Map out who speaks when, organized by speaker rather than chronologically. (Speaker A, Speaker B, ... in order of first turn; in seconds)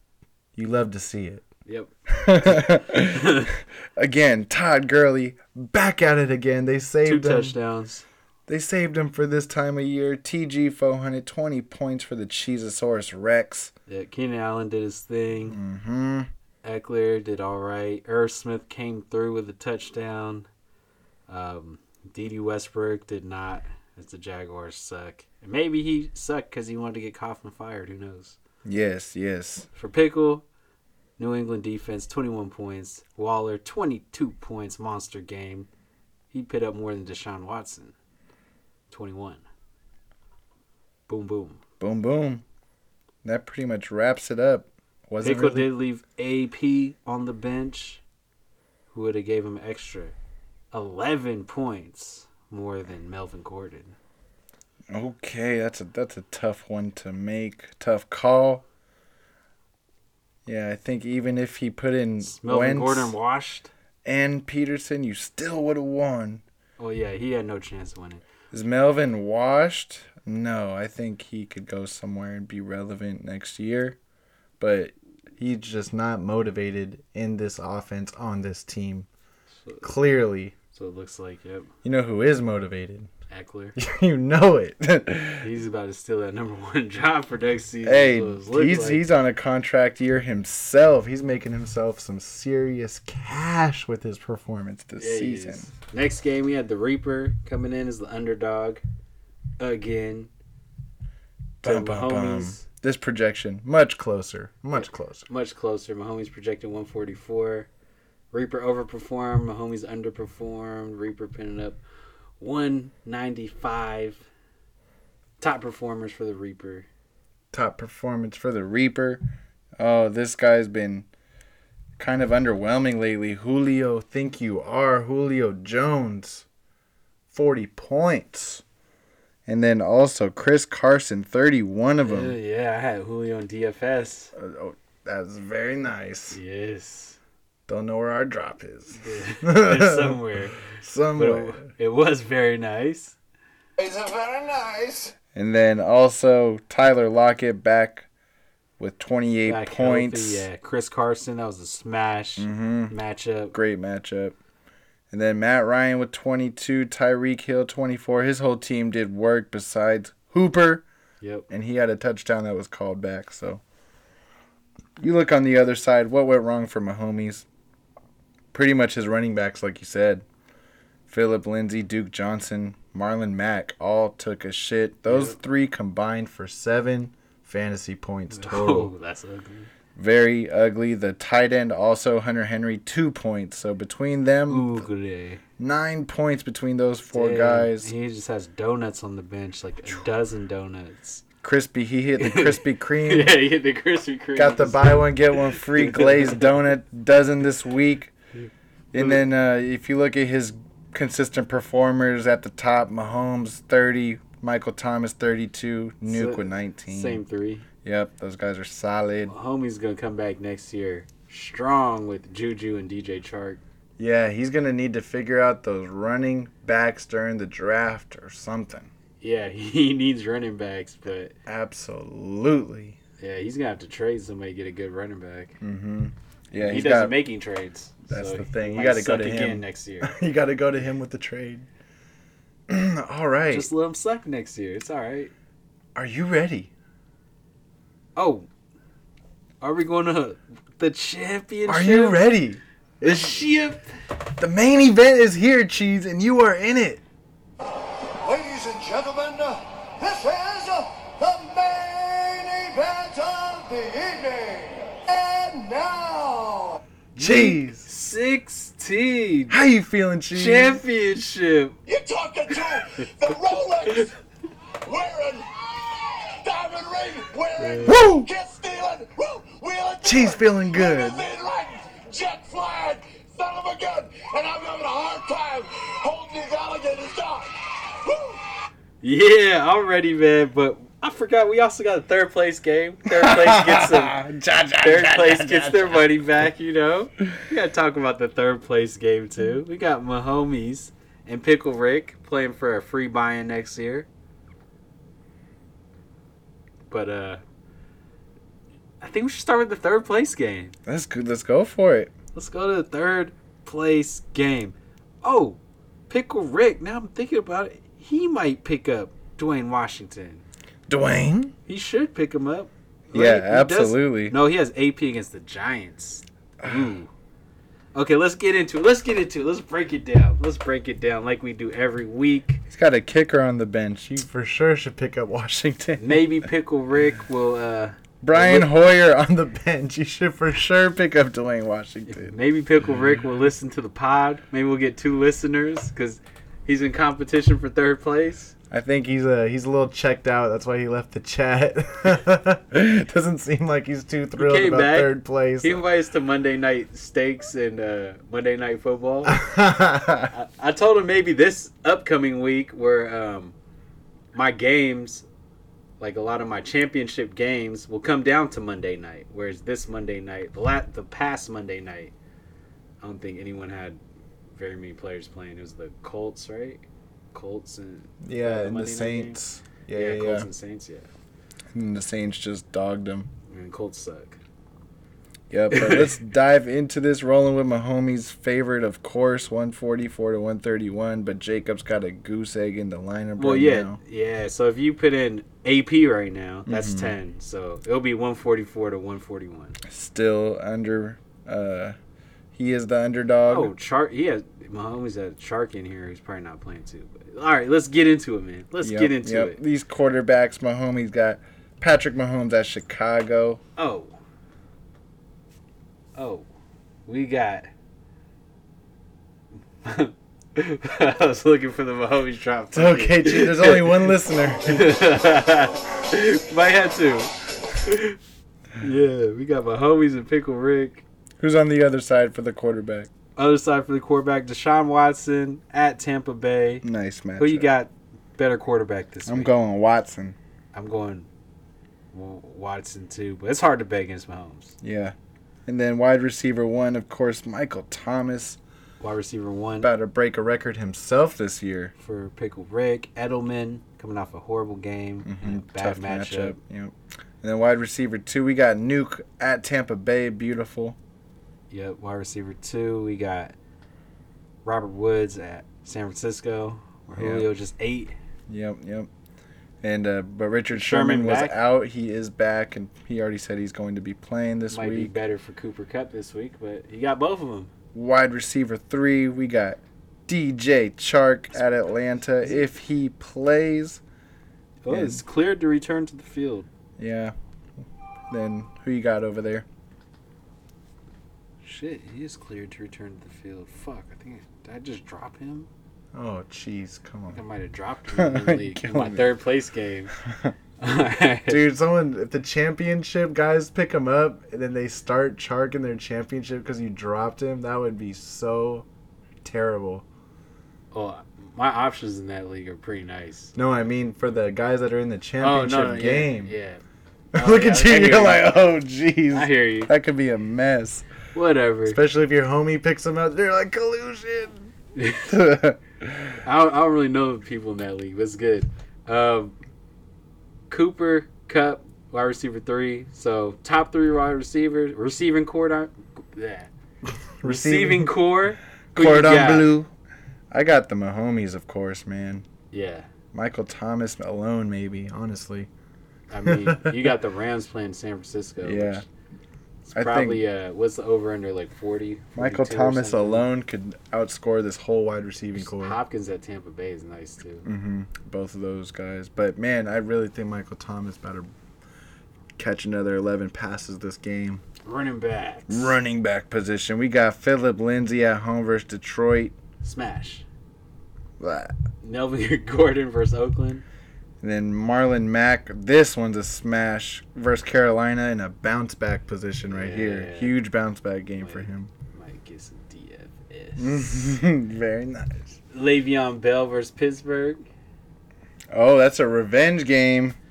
Speaker A: 0.6-1.4, 2.1-7.5, 8.5-13.7, 15.5-16.3, 28.6-29.7, 41.8-42.4, 43.2-45.7, 54.9-58.6, 60.5-63.2, 64.0-66.4, 68.5-74.0, 74.6-79.1, 79.8-80.5, 81.8-83.1, 83.8-85.5, 87.8-95.7, 101.6-105.3, 117.5-119.2, 119.8-121.1, 122.0-126.5, 127.3-128.6, 129.5-132.3, 134.3-136.4, 137.7-141.6, 145.3-148.1, 148.8-150.5, 152.4-153.0, 153.5-154.4, 155.1-160.9, 161.5-163.6, 165.0-167.4, 168.5-170.2, 171.1-178.9, 180.0-184.8, 185.6-187.9, 191.4-193.4, 194.4-198.1, 198.9-207.2, 207.8-209.3, 214.0-218.9, 221.5-223.0, 225.6-227.2, 228.1-231.7, 232.7-233.7, 236.0-236.7, 241.7-243.5, 244.4-247.0, 257.2-257.9, 259.5-260.8, 267.8-268.3, 270.0-271.2, 283.1-286.1, 300.9-302.1, 310.9-311.5, 313.1-314.4, 316.6-316.9, 322.7-326.3, 328.2-332.4, 338.7-345.8, 349.3-350.3, 368.2-370.5, 371.7-373.3, 375.5-384.0, 386.7-387.2, 389.9-392.0, 392.6-393.7, 398.8-403.6, 412.7-414.9, 421.4-423.1, 426.8-427.7, 429.3-430.4, 434.8-435.1, 435.7-438.6, 439.8-441.9, 445.2-451.0, 457.1-457.5, 458.5-459.1, 459.8-465.1, 467.9-474.0, 474.9-475.2, 477.0-477.3, 478.3-479.7, 486.1-487.4, 488.1-489.3, 490.2-490.5, 491.5-498.9, 499.4-500.1, 503.6-506.5, 507.3-511.1, 511.9-514.7, 515.3-516.4, 527.4-528.1, 528.9-529.9, 530.5-532.5, 533.3-535.7, 536.5-537.0, 538.6-539.0, 539.9-540.4, 542.4-546.0, 547.6-551.5, 552.6-554.6, 555.7-559.6, 561.4-561.8, 564.4-571.9, 573.8-575.5, 578.7-580.4
Speaker B: 1.7-1.9, 2.5-3.5, 7.0-8.1, 13.9-15.6, 16.6-20.5, 21.3-28.4, 29.8-30.4, 31.2-35.7, 36.3-37.9, 38.9-39.4, 41.1-41.6, 45.2-48.0, 48.9-50.2, 50.7-54.0, 62.2-63.7, 66.8-68.2, 79.7-79.9, 80.7-81.7, 83.3-83.8, 85.4-89.0, 95.0-98.8, 99.6-100.3, 101.6-102.6, 104.7-107.7, 108.3-111.8, 112.4-114.2, 115.4-116.9, 132.0-134.3, 136.3-137.2, 138.9-143.2, 149.4-153.6, 161.2-161.5, 175.1-175.4, 178.3-179.7, 184.5-185.4, 187.1-191.2, 192.2-196.6, 199.0-199.2, 206.1-207.7, 209.3-213.6, 219.2-221.3, 223.2-225.6, 226.5-230.2, 233.5-235.3, 238.2-238.5, 239.6-242.2, 243.0-243.9, 257.2-259.6, 260.3-261.8, 267.6-268.1, 279.0-284.2, 284.8-294.1, 296.9-297.4, 299.0-300.8, 302.3-310.4, 311.7-317.1, 317.9-322.6, 326.0-328.7, 332.1-338.5, 344.4-349.4, 350.3-353.6, 354.3-355.3, 356.0-362.1, 363.0-364.0, 364.5-369.4, 369.9-371.1, 373.5-374.4, 375.7-376.2, 383.4-389.8, 393.5-399.6, 403.8-404.2, 406.2-406.5, 407.1-407.7, 409.8-414.1, 414.6-418.2, 418.8-421.0, 423.4-426.8, 427.4-429.6, 430.7-431.3, 432.1-434.8, 439.0-439.9, 442.0-446.6, 451.7-453.6, 454.6-458.1, 460.7-461.6, 464.7-467.7, 474.8-476.7, 481.6-485.7, 487.3-490.1, 490.8-491.6, 500.9-503.6, 505.4-506.8, 507.3-508.5, 509.3-509.9, 511.3-512.0, 515.0-515.3, 516.4-519.5, 520.7-526.7, 527.4-529.7, 532.7-533.1, 536.3-539.0, 539.9-543.5, 545.6-547.7, 554.9-556.0, 559.8-560.5, 562.0-563.8, 569.7-570.5, 571.4-574.2, 575.7-577.6
Speaker C: 143.8-145.1, 248.3-249.5, 250.1-250.7, 251.2-251.6, 254.0-254.7, 255.4-256.2, 261.9-264.1, 264.9-265.5, 266.1-270.2, 270.9-277.5